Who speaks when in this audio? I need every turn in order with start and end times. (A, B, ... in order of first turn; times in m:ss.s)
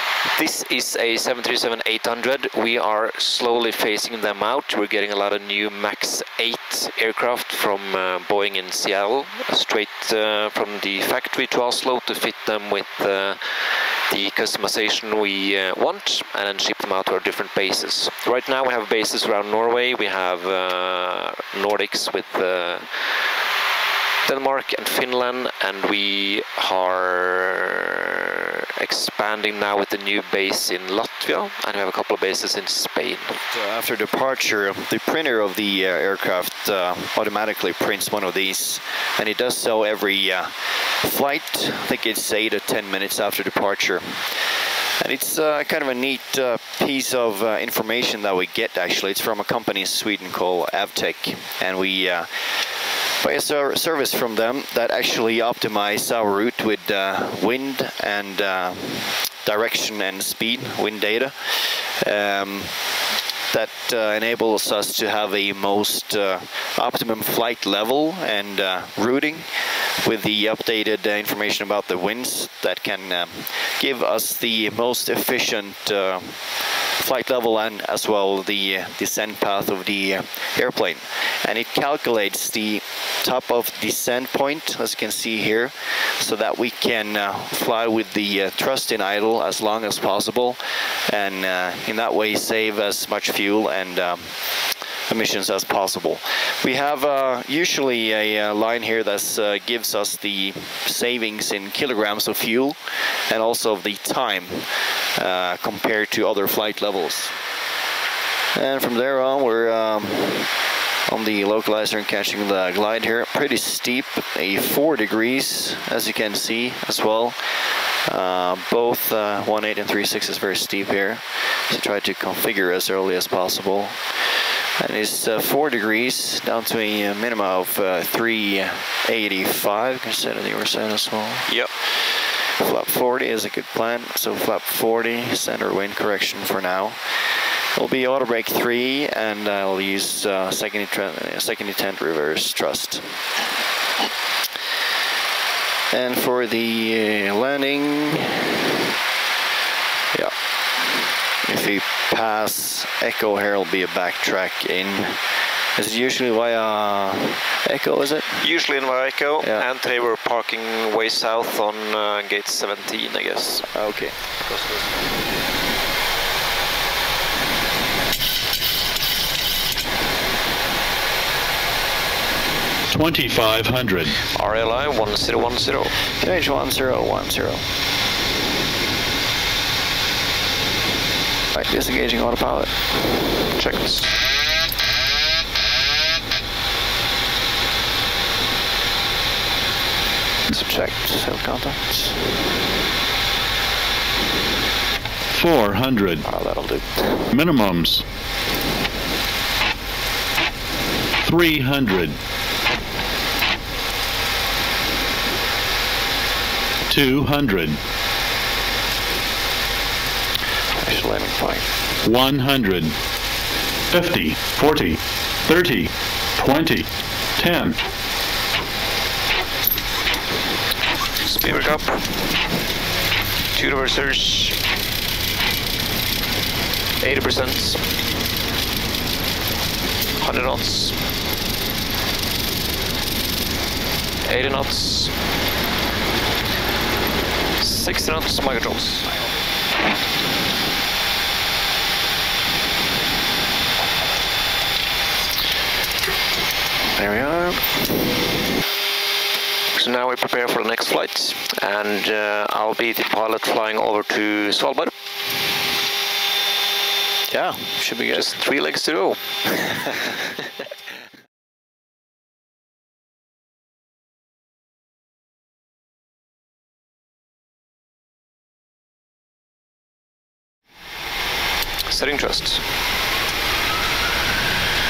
0:00.3-0:23.3 A
0:24.2-0:33.4 A
0:33.5-1:47.4 B
1:48.5-1:50.5 B
1:51.1-2:23.2 B
2:25.9-2:28.3 B
2:30.1-2:38.4 B
2:38.4-2:43.7 A
2:39.4-2:39.7 B
2:43.7-2:44.2 B
2:52.9-2:54.2 C
2:54.3-2:55.9 A
2:56.2-2:57.7 B
3:01.5-3:03.2 B
3:03.6-3:04.1 A
3:10.5-3:12.3 B
3:15.3-3:16.3 C
3:16.3-3:17.0 B
3:17.3-3:18.0 C
3:21.2-3:22.2 C
3:26.9-3:27.8 C
3:30.8-3:31.6 B
3:32.0-3:32.9 C
3:33.9-3:37.8 C
3:41.2-3:42.2 A
3:43.5-3:44.6 A
3:47.0-3:47.8 A
3:50.2-3:51.0 A
3:54.2-3:55.1 A
3:57.6-3:59.1 A
4:07.0-4:07.8 B
4:09.8-4:14.9 A
4:17.3-4:18.3 B
4:18.1-4:19.2 A
4:31.9-4:32.6 A